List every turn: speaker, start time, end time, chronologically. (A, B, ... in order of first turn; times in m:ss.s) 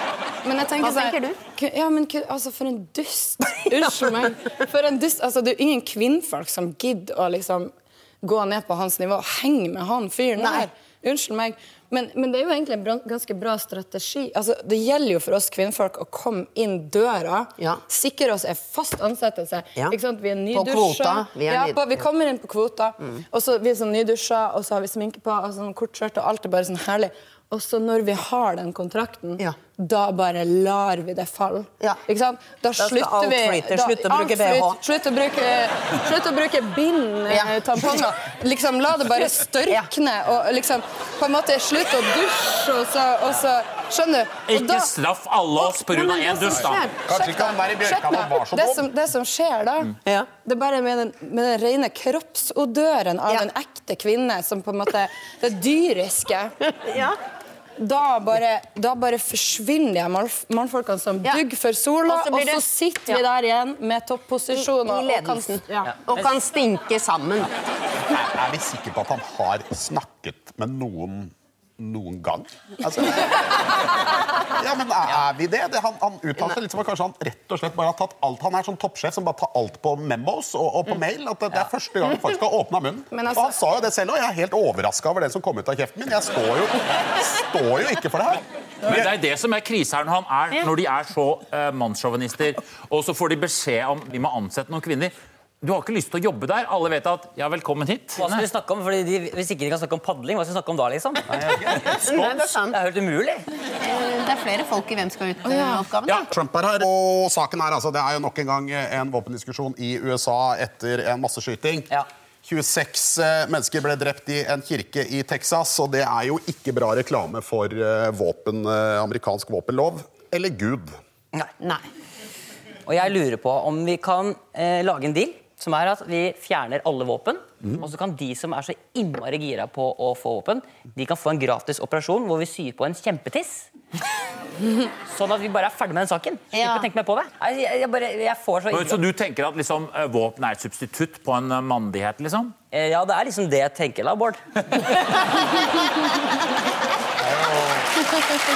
0:00.4-0:44.9 A
0:00.8-0:01.4 B
0:10.4-0:10.7 B
0:20.5-0:22.0 B
0:32.8-0:34.8 B
0:37.3-0:38.0 B
0:44.5-0:46.8 C
0:45.9-0:56.5 A
0:46.5-0:48.8 D
0:56.8-0:57.2 B
0:57.8-1:05.6 A
1:02.1-1:03.2 B
1:04.5-1:07.5 B
1:08.1-1:13.7 D
1:14.5-1:29.1 D
1:23.1-1:23.5 A
1:28.8-1:38.4 C
1:38.2-1:41.3 E
1:41.3-1:41.9 D
1:41.9-1:42.8 B
1:41.9-1:43.4 E
1:43.8-1:46.3 B
1:45.5-1:45.9 A
1:46.3-1:51.9 D
1:52.4-2:01.0 D
2:01.6-2:01.8 B
2:02.8-2:13.7 E
2:15.1-2:19.0 E
2:16.5-2:16.9 B
2:18.7-2:22.5 C
2:22.7-2:24.4 E
2:27.2-2:27.9 D